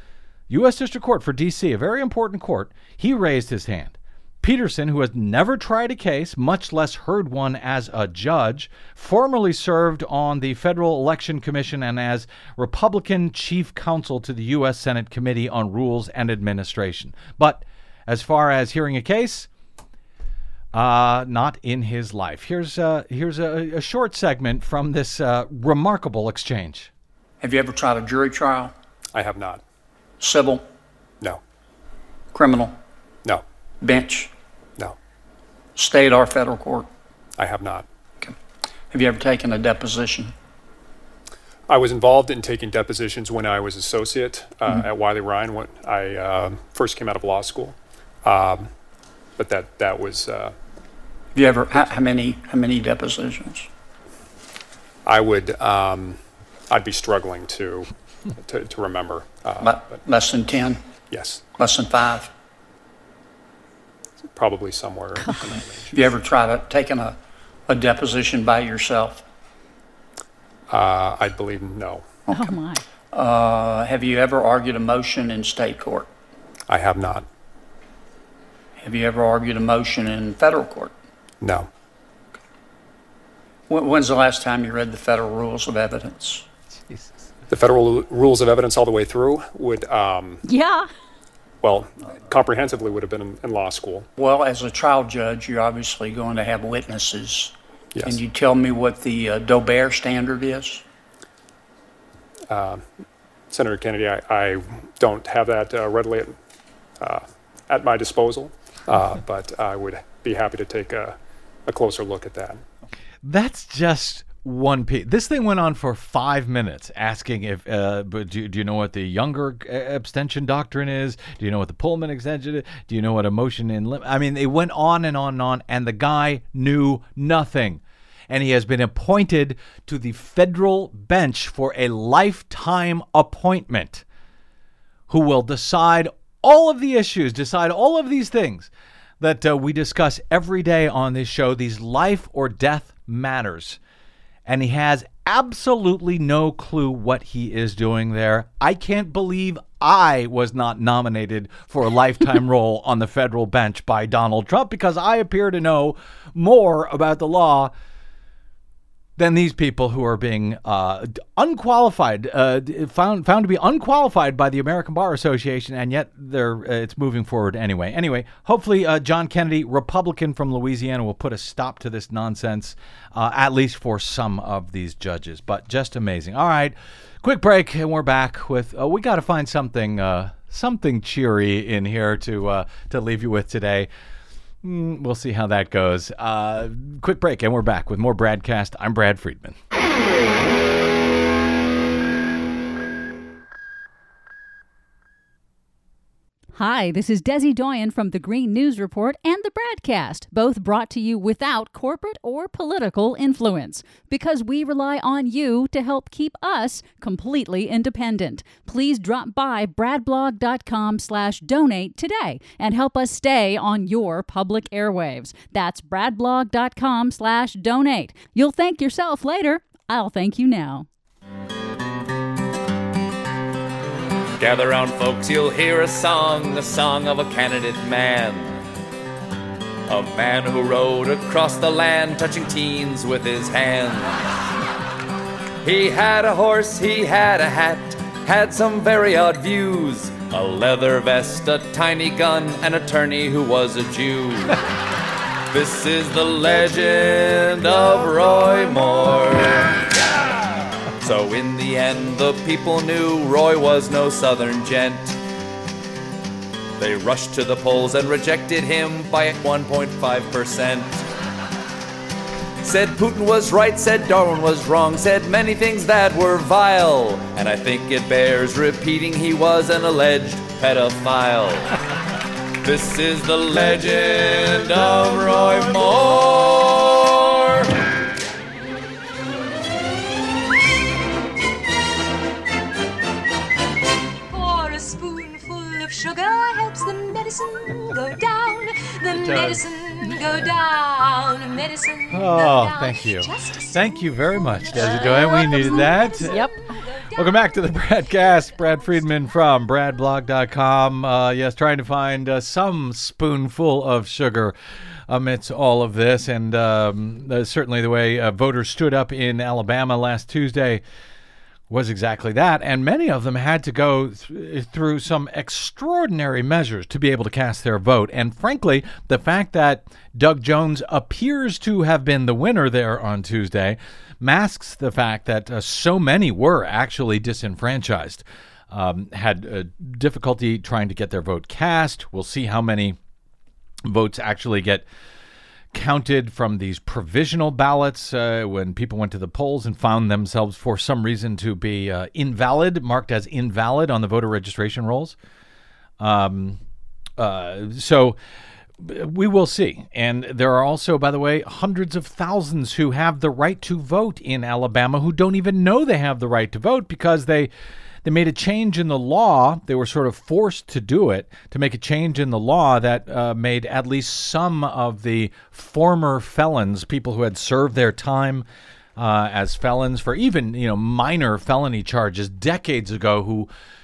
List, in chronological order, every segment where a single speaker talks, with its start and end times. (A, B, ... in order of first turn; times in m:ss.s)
0:00.5-0:19.5 A
0:20.7-0:26.9 A
0:27.4-0:28.7 B
0:29.1-0:29.6 C
0:30.2-0:30.6 B
0:32.3-0:32.8 B
0:33.8-0:34.3 B
0:35.7-0:36.9 B
0:37.4-0:37.9 C
0:38.9-0:40.3 B
0:41.7-0:48.7 C
0:49.4-0:50.5 C
0:51.3-0:53.7 B
0:55.0-1:00.0 C
0:59.6-1:00.8 B
1:01.1-1:01.4 C
1:01.6-1:02.3 B
1:04.3-1:05.9 C
1:05.9-1:07.2 B
1:07.7-1:09.2 B
1:10.7-1:12.1 C
1:12.3-1:12.5 B
1:12.3-1:12.8 D
1:13.1-1:16.1 B
1:16.7-1:17.2 C
1:18.8-1:20.9 B
1:21.4-1:21.7 C
1:23.7-1:26.5 B
1:27.5-1:30.4 C
1:30.4-1:30.9 D
1:31.6-1:34.0 C
1:34.2-1:40.8 B
1:37.9-1:38.2 C
1:42.5-1:42.9 C
1:43.5-1:46.4 C
1:47.0-1:52.6 C
1:53.2-2:14.0 A
2:15.1-2:23.8 A
2:24.4-2:37.7 A
2:39.2-3:03.9 A
3:04.6-3:09.6 A
3:16.6-3:40.9 D
3:44.4-3:48.5 E
3:49.9-3:54.1 E
3:55.6-4:04.6 E
4:05.5-4:09.8 E
4:11.0-4:15.2 E
4:16.8-4:21.0 E
4:22.6-4:31.7 E
4:32.6-4:37.7 E
4:44.3-4:57.6 F
4:49.1-4:49.6 A
4:52.1-4:56.5 A
4:55.5-4:56.6 D
4:57.1-5:04.5 A
5:05.1-5:10.8 A
5:11.7-5:33.0 A
5:33.8-5:34.8 A
5:35.7-5:45.2 A
5:46.0-5:46.6 A
5:47.2-5:48.2 A
5:48.8-5:57.5 A
5:58.0-6:08.4 A
6:09.0-6:13.5 A